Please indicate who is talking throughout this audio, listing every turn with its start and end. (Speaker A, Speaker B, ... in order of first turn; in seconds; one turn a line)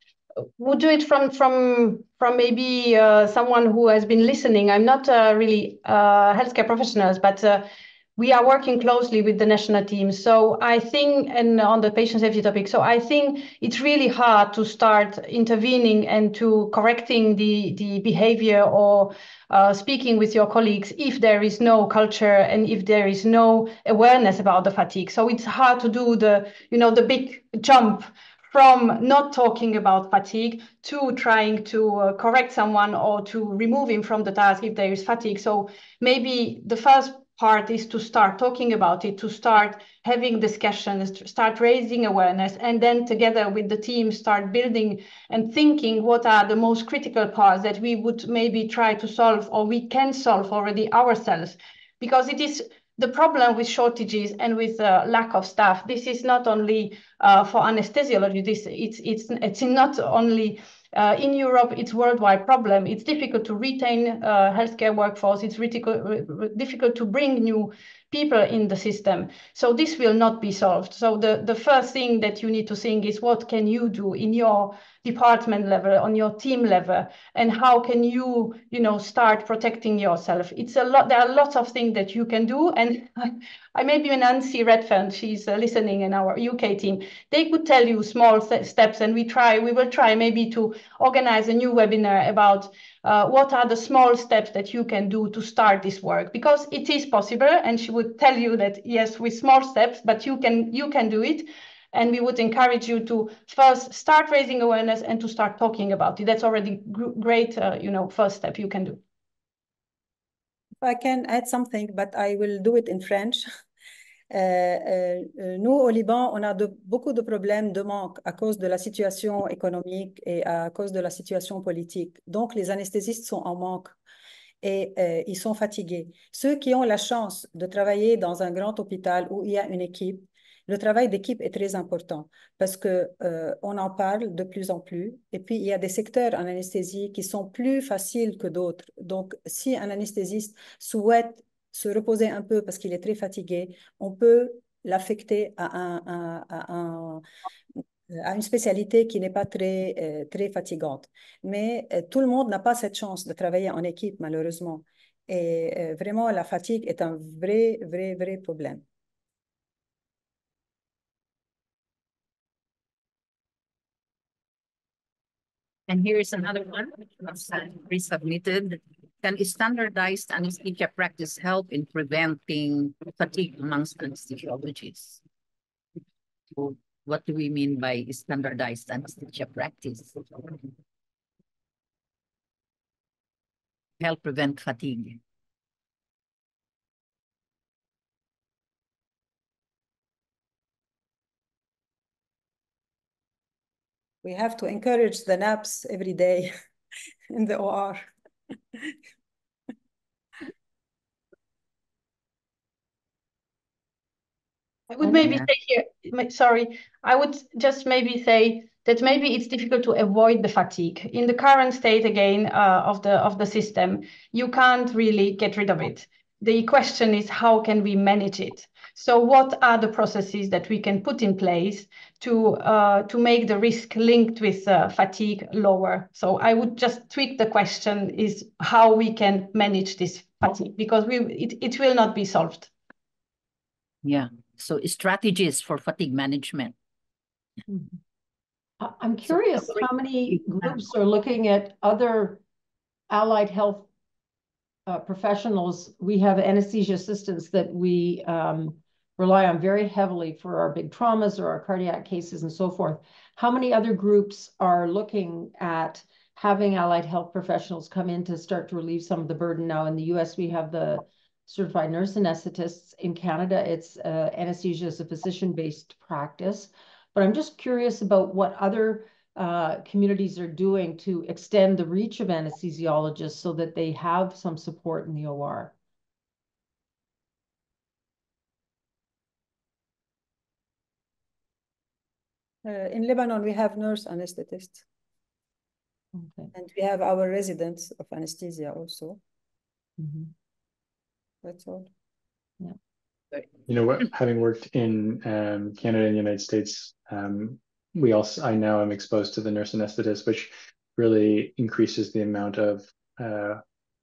Speaker A: 0.6-7.7
Speaker A: 8.2-109.0
Speaker B: 110.8-113.5
Speaker B: 114.3-124.0
Speaker B: 124.6-147.2
Speaker B: 148.1-158.8
Speaker C: 165.9-175.2
Speaker C: 176.5-180.7
Speaker C: 184.0-185.2
Speaker B: 194.2-196.5
Speaker B: 197.3-198.1
Speaker A: 204.9-232.7
Speaker C: 205.1-205.4
Speaker C: 234.0-236.7
Speaker D: 237.7-237.9
Speaker D: 238.8-242.4
Speaker D: 243.1-243.9
Speaker D: 244.8-275.7
Speaker B: 282.6-284.8
Speaker D: 286.1-286.5
Speaker B: 286.5-289.2
Speaker D: 290.0-290.3
Speaker B: 291.4-291.9
Speaker E: 293.7-303.6